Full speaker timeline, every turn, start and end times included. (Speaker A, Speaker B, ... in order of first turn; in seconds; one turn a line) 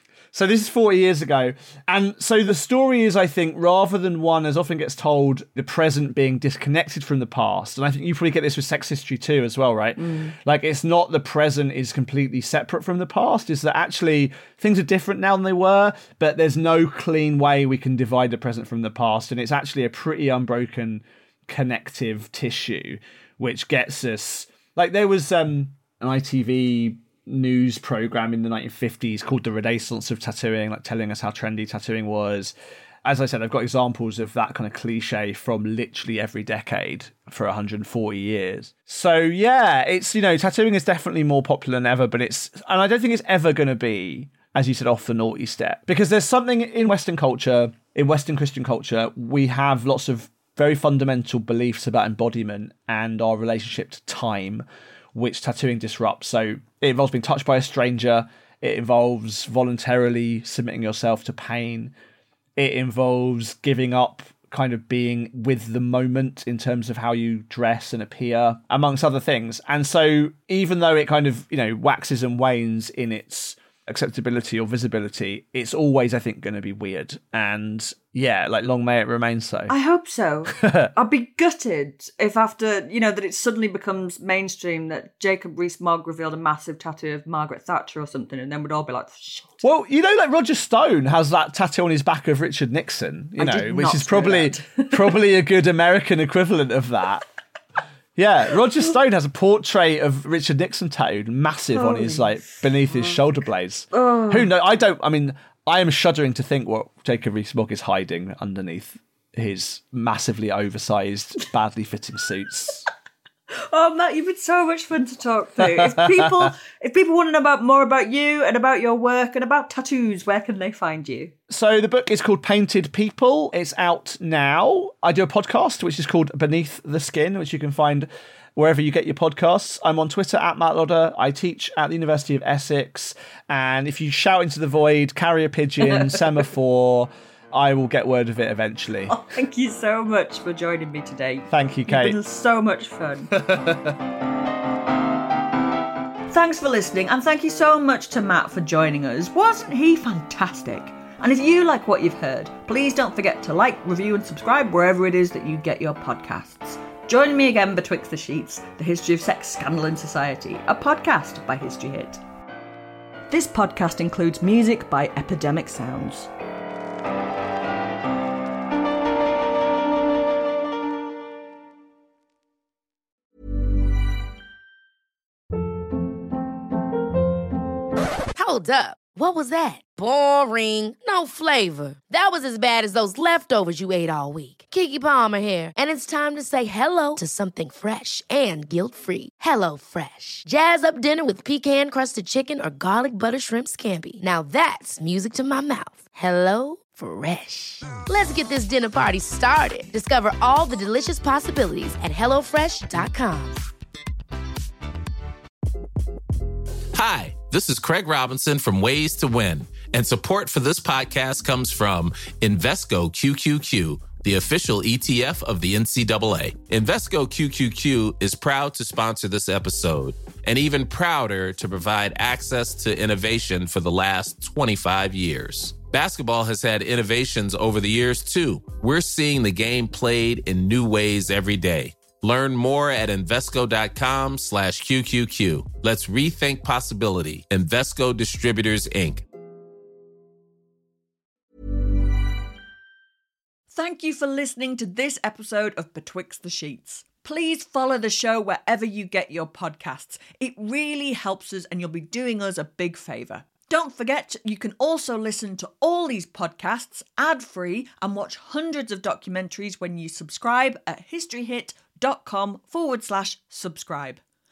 Speaker A: 0.3-61.9
Speaker B: 10.0-10.3
Speaker A: 62.6-79.7
Speaker B: 79.7-89.6
Speaker A: 80.6-80.9
Speaker A: 89.6-97.2
Speaker B: 93.4-95.2
Speaker A: 98.2-112.9
Speaker B: 101.7-103.2
Speaker B: 103.9-104.5
Speaker B: 113.7-121.3
Speaker A: 115.6-116.5
Speaker A: 121.5-139.2
Speaker B: 135.9-136.2
Speaker B: 139.1-143.4
Speaker A: 141.5-142.2
Speaker A: 143.4-143.9
Speaker B: 146.3-162.2
Speaker B: 163.3-166.3
Speaker C: 178.3-203.6
Speaker D: 206.9-239.2
Speaker B: 243.7-264.2